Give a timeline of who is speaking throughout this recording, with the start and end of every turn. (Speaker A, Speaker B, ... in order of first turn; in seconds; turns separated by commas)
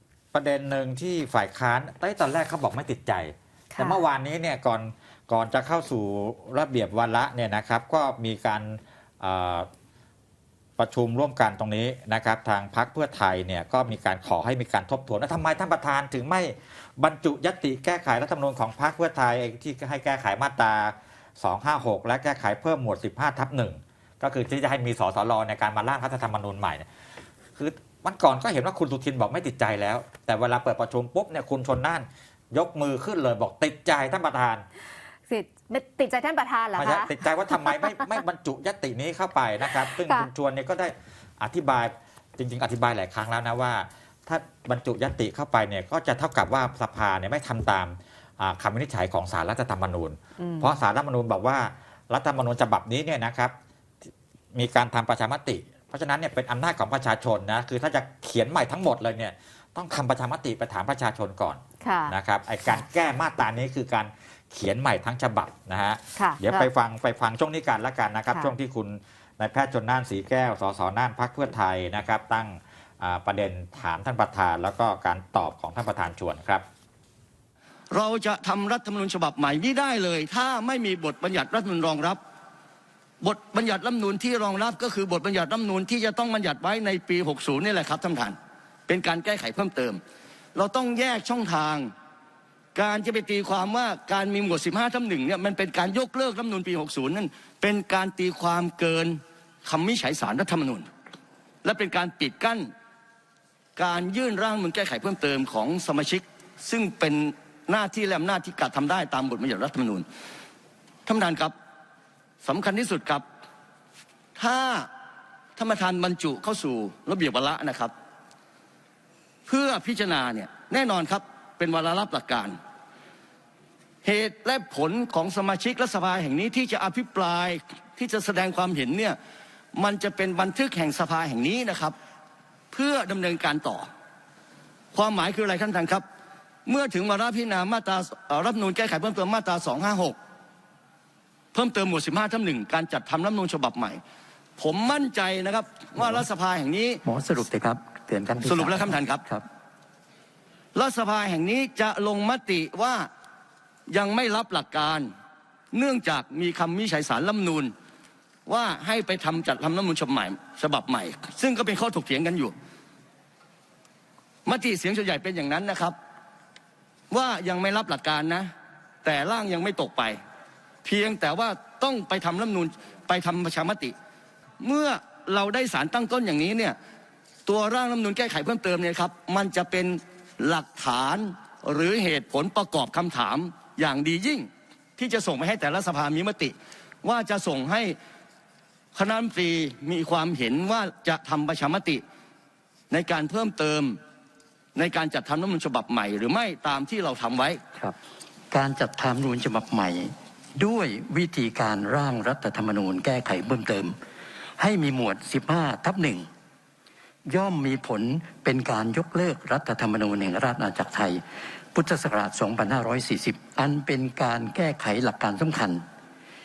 Speaker A: 0.3-9.7, Speaker B: 3.7-4.0, Speaker A: 10.8-26.9, Speaker A: 27.6-34.6, Speaker B: 35.3-37.1, Speaker A: 36.8-53.5, Speaker B: 37.7-38.0, Speaker B: 39.8-40.3, Speaker B: 50.4-50.7, Speaker A: 54.5-76.6, Speaker B: 61.8-62.1, Speaker B: 66.2-66.7, Speaker C: 77.9-82.2, Speaker C: 83.2-88.4, Speaker C: 88.9-90.0, Speaker C: 90.5-91.9, Speaker C: 92.8-100.9, Speaker C: 101.6-102.7, Speaker C: 103.8-110.0, Speaker C: 111.0-111.5, Speaker C: 112.4-113.2, Speaker C: 114.4-114.9, Speaker C: 115.5-117.9, Speaker C: 119.5-122.6, Speaker C: 124.0-129.2, Speaker C: 129.7-131.9, Speaker C: 132.7-133.9, Speaker C: 134.9-136.0, Speaker C: 136.7-140.2, Speaker C: 141.5-144.0, Speaker C: 144.6-147.0, Speaker D: 145.9-146.2, Speaker D: 147.0-149.4, Speaker C: 148.4-149.2, Speaker C: 150.7-153.1, Speaker C: 153.9-155.1, Speaker C: 155.7-157.7, Speaker C: 158.4-162.5, Speaker C: 164.4-165.9, Speaker C: 167.1-168.5, Speaker C: 169.0-170.2, Speaker C: 170.8-173.9, Speaker C: 174.6-176.8, Speaker C: 177.4-187.9, Speaker C: 188.9-192.0, Speaker C: 192.9-194.0, Speaker C: 194.7-197.6, Speaker D: 198.5-203.9, Speaker D: 204.6-206.2, Speaker D: 207.3-211.2, Speaker D: 211.7-215.8